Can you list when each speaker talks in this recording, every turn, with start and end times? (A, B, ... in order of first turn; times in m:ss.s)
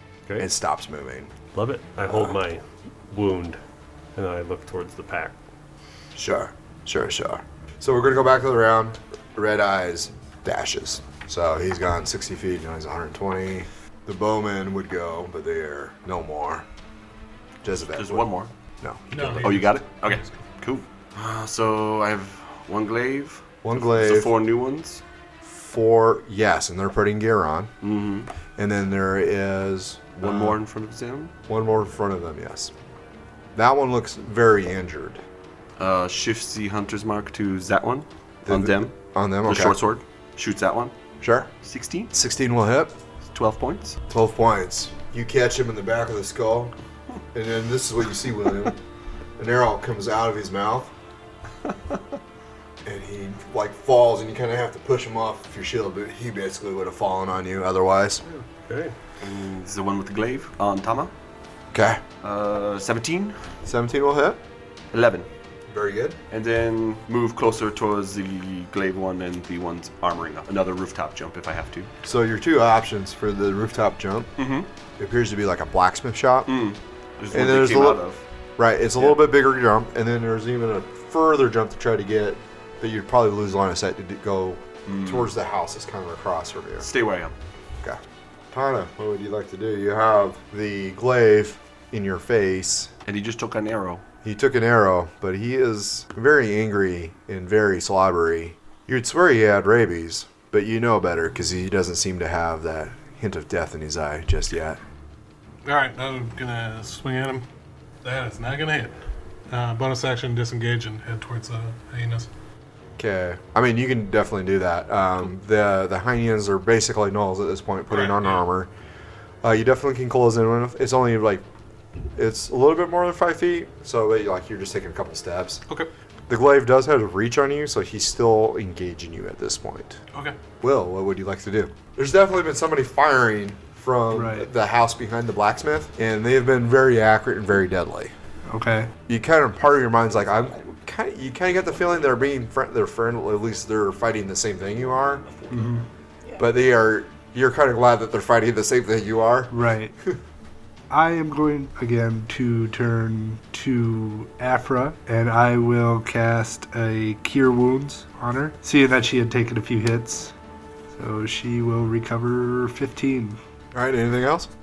0:00.4-0:01.3 A
0:01.5-0:03.6 B
0:04.2-0:05.4 B
0:06.1-0:16.6 A
0:17.6-0:19.5 A
0:17.9-0:18.5 C
0:19.1-0:20.3 D
0:19.1-0:25.0 C
0:23.6-0:24.4 A
0:25.4-0:27.7 A
0:27.8-0:28.3 C
0:28.6-0:30.6 A
0:30.2-0:31.3 C
0:31.5-0:32.7 A
0:33.6-0:35.2 A
0:35.8-0:40.9 C
0:38.4-0:39.8 A
0:41.2-0:41.5 A
0:41.6-0:42.1 C
0:42.1-0:42.9 A
0:43.3-0:44.0 C
0:44.1-0:46.7 A
0:47.3-0:48.8 A
0:49.4-0:50.9 A
0:52.8-0:58.2 A
0:58.2-0:59.0 B
0:59.2-1:01.1 C
1:01.7-1:02.0 A
1:02.2-1:03.4 C
1:03.6-1:04.4 A
1:04.9-1:05.3 C
1:05.7-1:06.2 A
1:06.3-1:11.9 C
1:12.0-1:14.3 A
1:14.4-1:14.7 C
1:15.0-1:16.6 A
1:16.5-1:18.2 C
1:17.3-1:18.0 A
1:18.6-1:26.9 A
1:24.9-1:25.3 C
1:26.8-1:27.3 C
1:28.5-1:32.9 A
1:33.0-1:34.0 C
1:34.2-1:44.8 A
1:45.6-1:47.4 D
1:48.0-1:49.0 D
1:49.5-1:52.3 D
1:53.0-1:58.7 A
1:57.9-1:58.4 D
1:59.4-2:01.4 A
2:02.1-2:05.6 A
2:06.3-2:10.0 A
2:10.6-2:18.1 A
2:14.1-2:14.5 E
2:18.5-2:18.9 E
2:19.1-2:25.4 A
2:25.5-2:25.8 E
2:26.4-2:30.2 A
2:29.5-2:29.9 E
2:30.9-2:40.3 E
2:40.9-2:43.4 E
2:43.7-2:44.5 A